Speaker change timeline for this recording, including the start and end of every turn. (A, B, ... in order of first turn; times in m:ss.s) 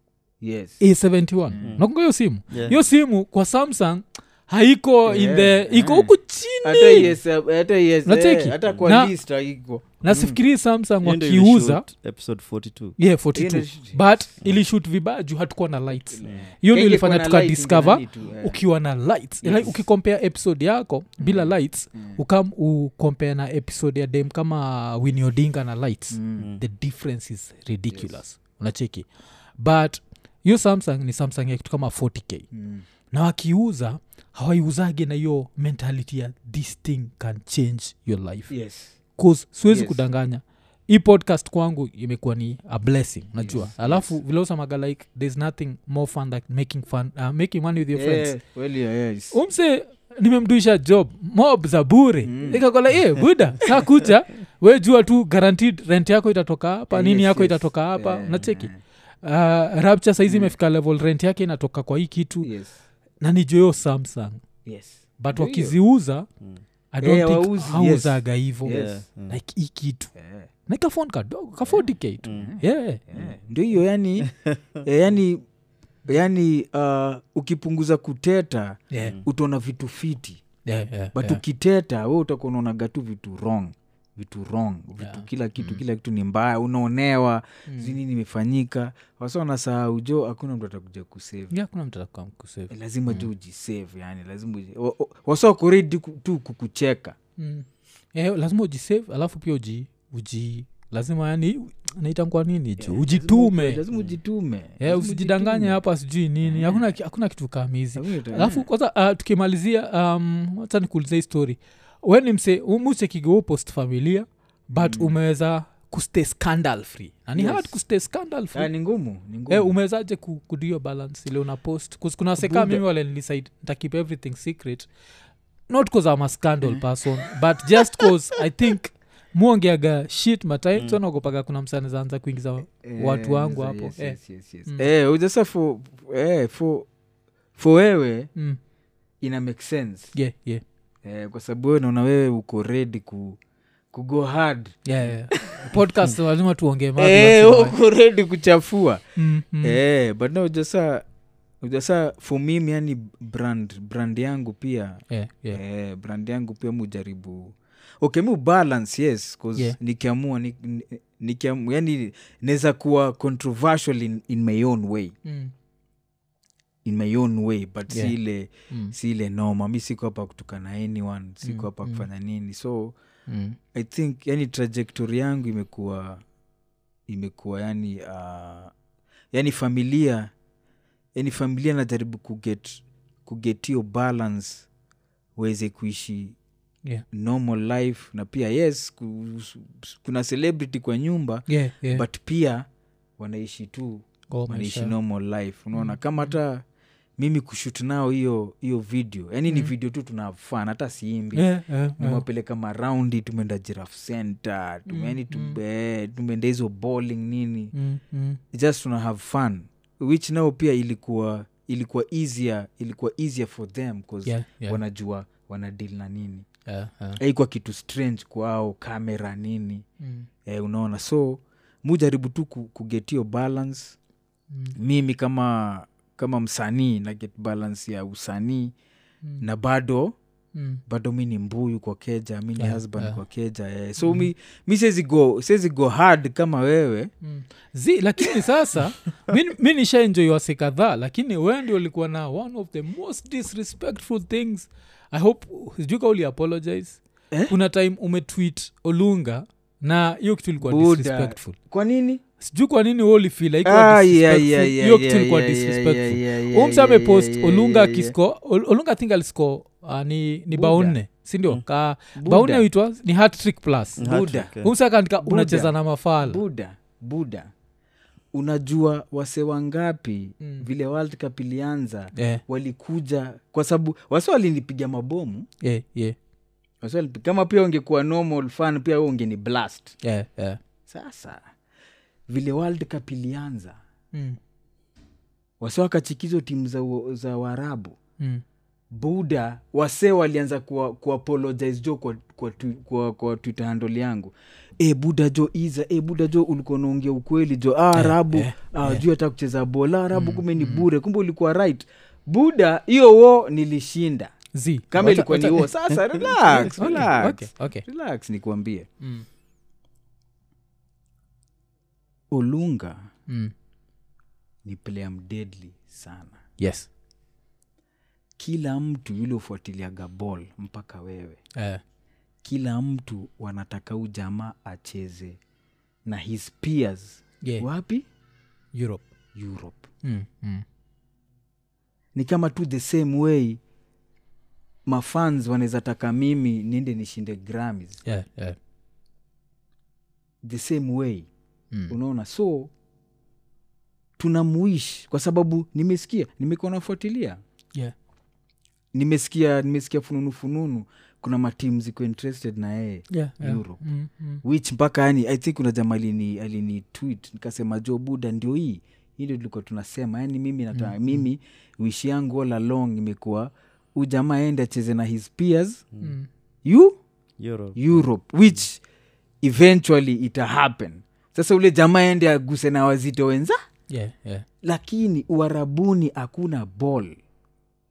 0:00.4-0:00.8 A
0:00.8-0:07.1 B
0:01.5-0:01.8 A
0:01.6-0:01.9 C
0:02.5-0:02.8 C
0:05.0-0:06.1 A
0:06.6-0:10.4 A
0:08.0-0:09.1 B
0:10.0-0:11.8 B
0:11.0-0:13.0 C
0:13.0-0:29.1 B
0:13.3-0:14.2 A
0:16.1-0:18.6 A
0:19.4-0:19.8 A
0:21.2-0:22.2 A
0:26.1-0:26.5 A
0:27.9-0:28.2 A
0:29.6-0:32.5 B
0:32.5-0:32.8 A
0:33.1-0:38.5 B
0:38.5-0:39.0 A
0:39.2-0:48.3 B
0:39.7-0:40.0 A
0:43.4-0:44.1 A
0:47.9-0:49.4 A
0:49.3-0:58.7 B
0:52.2-0:52.6 A
0:56.9-0:58.8 A
0:59.2-1:02.5 B
1:00.3-1:00.5 A
1:02.4-1:02.8 A
1:03.2-1:04.4 B
1:04.6-1:05.8 A
1:05.2-1:06.3 B
1:06.9-1:10.1 B
1:07.0-1:09.0 A
1:08.6-1:09.4 C
1:10.2-1:10.5 A
1:10.7-1:13.0 B
1:12.2-1:12.6 C
1:12.3-1:14.3 A
1:14.2-1:14.6 C
1:14.8-1:15.4 A
1:16.1-1:20.4 A
1:18.9-1:19.2 B
1:20.6-1:21.4 B
1:21.1-1:31.5 A
1:25.0-1:25.8 B
1:27.7-1:28.0 B
1:31.5-1:33.3 B
1:32.7-1:37.2 A
1:37.4-1:43.8 B
1:42.8-1:45.8 A
1:44.8-1:58.7 B
1:46.4-1:46.8 A
1:47.9-1:48.7 A
1:54.7-1:55.2 A
1:57.4-1:57.8 A
1:58.5-1:59.8 A
1:59.5-2:04.9 B
2:02.4-2:02.8 A
2:05.7-2:14.8 B
2:06.6-2:08.1 A
2:12.8-2:16.9 A
2:17.6-2:18.3 A
2:19.2-2:20.1 A
2:20.1-2:20.6 B
2:21.0-2:23.4 A
2:23.9-2:25.8 A
2:24.8-2:27.7 B
2:27.0-2:29.0 A
2:29.2-2:29.8 B
2:29.6-2:31.0 A
2:31.6-2:45.1 A
2:35.1-2:35.6 B
2:45.2-2:45.5 B
2:46.8-2:53.0 A
2:47.9-2:48.1 B
2:51.4-2:52.1 B
2:53.3-2:53.6 B
2:53.7-2:56.2 A
2:57.1-2:58.7 A
2:59.3-3:00.3 A
3:01.2-3:04.7 A
3:05.4-3:06.4 A
3:07.1-3:12.7 A
3:11.5-3:12.0 B
3:13.2-3:16.6 A
3:14.3-3:14.9 B
3:15.7-3:16.4 B
3:17.2-3:21.4 A
3:21.3-3:22.2 B
3:22.0-3:27.7 A
3:24.9-3:25.6 B
3:27.7-3:28.4 B
3:28.5-3:36.4 A
3:34.2-3:34.8 B
3:36.6-3:37.2 B
3:37.2-3:39.8 A
3:40.0-3:40.3 B
3:40.4-3:44.0 A
3:44.7-3:48.7 A
3:49.4-3:50.2 A
3:50.5-3:50.8 B
3:50.9-3:57.1 A
3:52.6-3:53.2 B
3:54.0-3:54.3 B
3:57.2-4:11.6 B
4:10.6-4:12.2 A
4:12.4-4:26.4 B
4:13.6-4:18.1 A
4:20.5-4:21.0 A
4:22.2-4:22.6 A
4:24.0-4:24.7 C
4:24.0-4:24.5 A
4:25.2-4:27.5 A
4:28.3-4:35.5 A
4:30.4-4:30.7 B
4:32.1-4:32.4 B
4:35.6-4:36.2 B
4:36.8-4:40.0 A
4:40.0-4:40.6 B
4:40.8-4:41.4 A
4:42.3-4:43.8 A
4:44.1-4:44.4 B
4:45.6-4:48.0 A
4:48.9-5:04.3 A
4:57.9-4:59.0 B
5:00.1-5:00.9 B
5:04.5-5:05.7 B
5:04.9-5:08.9 A
5:06.6-5:07.8 B
5:09.0-5:09.2 B
5:12.3-5:13.1 A
5:13.3-5:13.5 B
5:14.6-5:16.4 A
5:16.6-5:16.9 B
5:18.4-5:21.4 A
5:21.6-5:21.8 B
5:22.4-5:25.4 A
5:26.0-5:28.1 A
5:28.7-5:29.0 B
5:29.3-5:29.9 A
5:30.0-5:30.6 B
5:32.1-5:33.6 A
5:34.9-5:38.0 A
5:38.0-5:38.6 B
5:40.4-5:41.3 A
5:41.9-5:42.7 A
5:44.2-5:47.4 A
5:48.9-5:53.8 A
5:53.1-5:54.4 B
5:54.4-6:05.8 A
6:00.7-6:01.2 B
6:06.0-6:06.3 B
6:06.6-6:07.0 A
6:07.4-6:08.0 C
6:07.8-6:08.8 A
6:09.4-6:13.6 A
6:13.9-6:14.4 B
6:14.6-6:17.1 A